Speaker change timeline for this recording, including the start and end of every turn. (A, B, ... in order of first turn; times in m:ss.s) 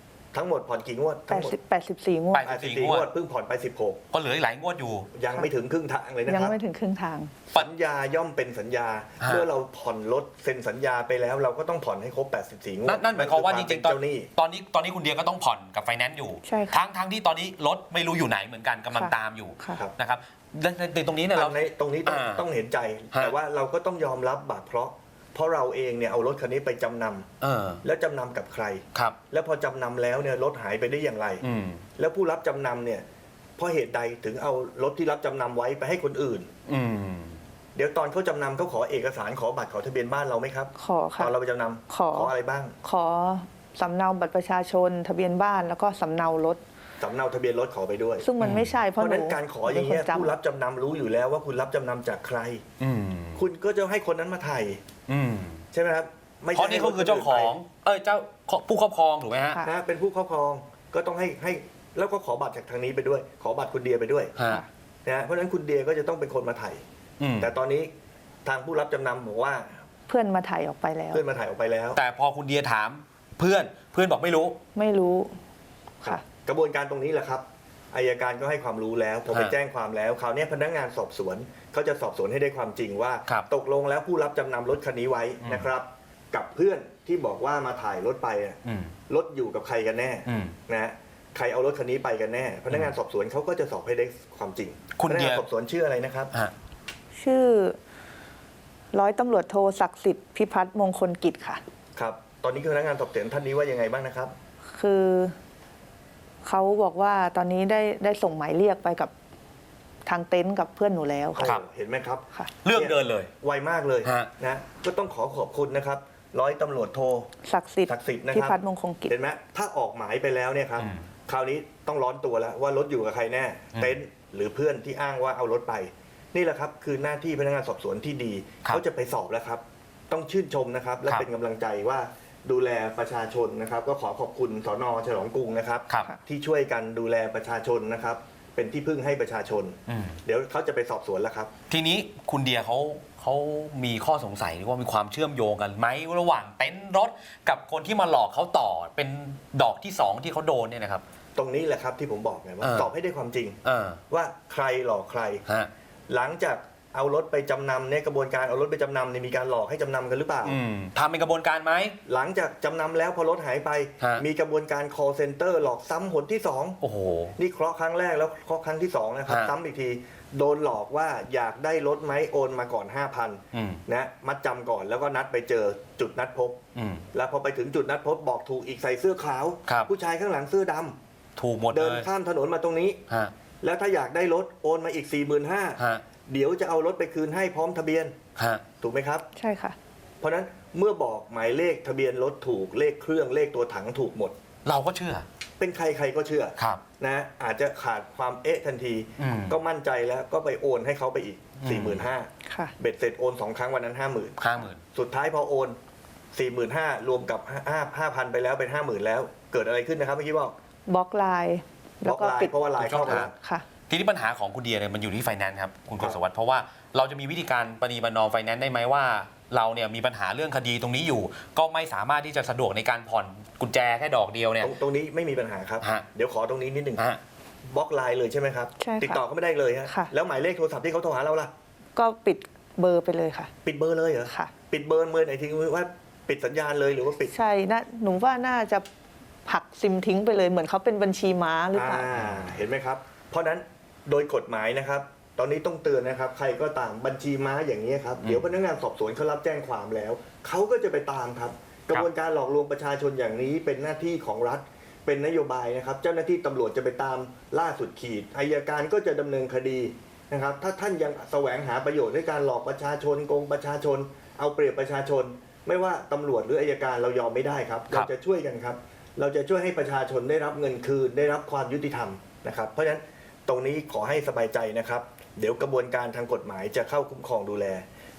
0:00.3-0:01.6 A
0:01.3-0:02.5 B
0:02.3-0:03.1 C
0:02.4-0:04.0 A
0:04.1-0:05.1 C
0:05.1-0:06.6 A
0:06.2-0:07.3 B
0:07.5-0:14.3 A
0:09.2-0:09.5 C
0:12.8-0:22.4 C
0:16.4-0:16.8 B
0:18.9-0:19.8 B
0:21.3-0:27.3 A
0:27.4-0:27.8 C
0:27.8-0:31.4 A
0:31.4-0:31.8 C
0:32.0-0:33.0 A
0:33.6-0:36.5 A
0:36.7-0:37.4 C
0:37.7-0:42.7 A
0:40.8-0:41.3 B
0:41.9-0:46.6 B
0:47.0-0:48.3 A
0:48.2-0:50.3 B
0:48.4-0:48.7 C
0:49.0-0:52.6 A
0:52.8-0:53.4 C
0:53.4-0:54.8 A
0:55.1-0:55.6 C
0:55.7-0:57.6 A
0:56.5-0:59.6 C
0:59.6-1:04.3 A
1:04.4-1:04.6 C
1:05.0-1:06.8 A
1:07.2-1:07.5 C
1:07.4-1:07.9 A
1:08.4-1:09.8 A
1:10.1-1:11.2 B
1:11.1-1:12.0 A
1:11.9-1:14.6 C
1:14.7-1:15.4 B
1:16.0-1:28.6 A
1:19.3-1:19.6 C
1:25.4-1:25.7 C
1:28.6-1:28.9 C
1:29.1-1:36.3 A
1:30.2-1:30.6 C
1:34.9-1:35.4 C
1:37.2-1:37.8 B
1:38.9-1:41.6 B
1:42.0-1:44.3 A
1:44.8-1:45.4 B
1:46.4-1:49.1 B
1:50.0-1:51.5 B
1:51.3-1:57.3 A
1:52.6-1:53.3 C
1:54.0-1:54.3 C
1:57.4-1:59.1 B
1:57.9-2:21.5 A
2:00.8-2:01.0 C
2:19.9-2:20.2 C
2:21.7-2:31.0 C
2:31.4-2:35.4 A
2:32.6-2:32.9 C
2:33.6-2:34.0 C
2:36.1-2:40.6 A
2:40.4-2:42.0 C
2:42.0-2:46.8 A
2:46.8-2:47.3 C
2:47.4-2:56.6 A
2:49.3-2:49.5 C
2:53.5-2:53.8 C
2:56.7-2:57.0 C
2:57.1-3:01.0 A
3:01.4-3:02.1 C
3:01.7-3:03.0 A
3:03.1-3:03.3 C
3:03.6-3:08.2 A
3:05.8-3:06.0 C
3:08.4-3:08.6 C
3:08.8-3:09.2 A
3:09.3-3:09.8 B
3:10.2-3:14.3 A
3:14.6-3:15.2 C
3:15.6-3:24.4 A
3:16.6-3:16.8 C
3:19.2-3:19.6 C
3:21.6-3:22.1 C
3:22.4-3:22.7 B
3:24.4-3:24.8 C
3:24.9-3:25.8 A
3:26.3-3:30.5 A
3:30.9-3:33.6 B
3:32.0-3:33.3 A
3:32.8-3:33.3 C
3:33.9-3:44.7 C
3:44.6-3:47.0 A
3:45.8-3:46.0 C
3:47.7-3:51.5 A
3:48.8-3:49.2 B
3:49.8-3:50.1 B
3:51.9-3:53.5 B
3:53.6-3:57.3 A
3:54.2-3:54.5 B
3:57.3-3:58.8 B
3:59.4-4:02.1 B
4:01.7-4:37.8 A
4:08.2-4:08.5 C